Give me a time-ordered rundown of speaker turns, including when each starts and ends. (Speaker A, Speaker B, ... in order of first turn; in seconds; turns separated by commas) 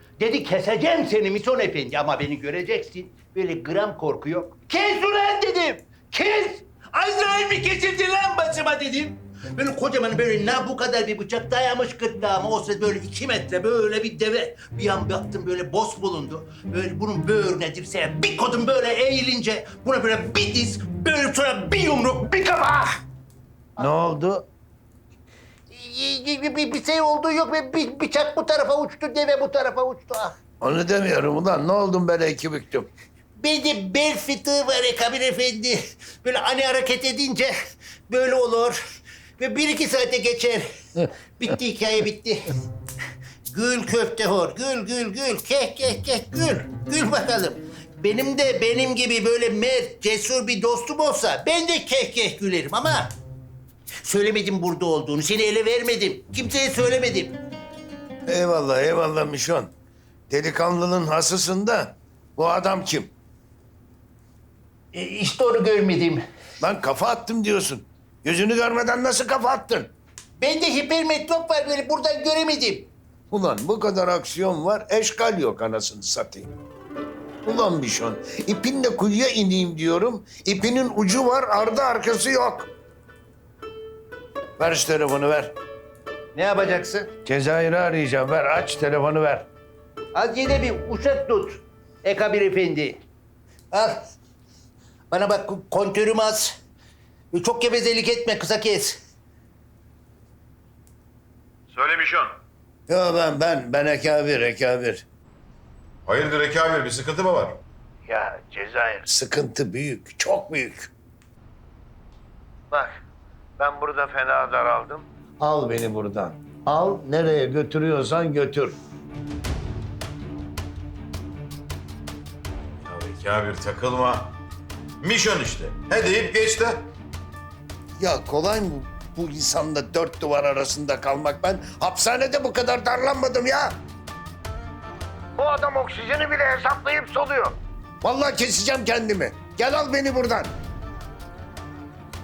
Speaker A: 0.2-23.0, Speaker B: 23.8-24.5, Speaker A: 25.7-30.4, Speaker B: 30.6-32.9, Speaker A: 33.4-37.5, Speaker A: 38.1-38.8, Speaker A: 39.4-42.5, Speaker A: 43.5-53.1, Speaker A: 54.0-57.4, Speaker B: 58.3-59.7, Speaker B: 60.3-63.1, Speaker A: 64.9-66.2, Speaker B: 66.6-69.9, Speaker A: 70.4-72.9, Speaker B: 73.3-76.5, Speaker B: 77.5-82.7, Speaker B: 84.6-85.5, Speaker A: 86.3-87.1, Speaker B: 87.2-89.5, Speaker A: 90.1-93.0, Speaker A: 93.7-94.0, Speaker A: 95.1-96.5, Speaker A: 97.3-99.0, Speaker C: 101.7-102.4, Speaker B: 102.9-105.1, Speaker C: 106.1-107.6, Speaker B: 108.1-110.9, Speaker B: 112.7-113.0, Speaker B: 113.6-118.8, Speaker C: 122.8-124.4, Speaker C: 125.0-126.9, Speaker B: 128.0-133.8, Speaker B: 135.4-140.5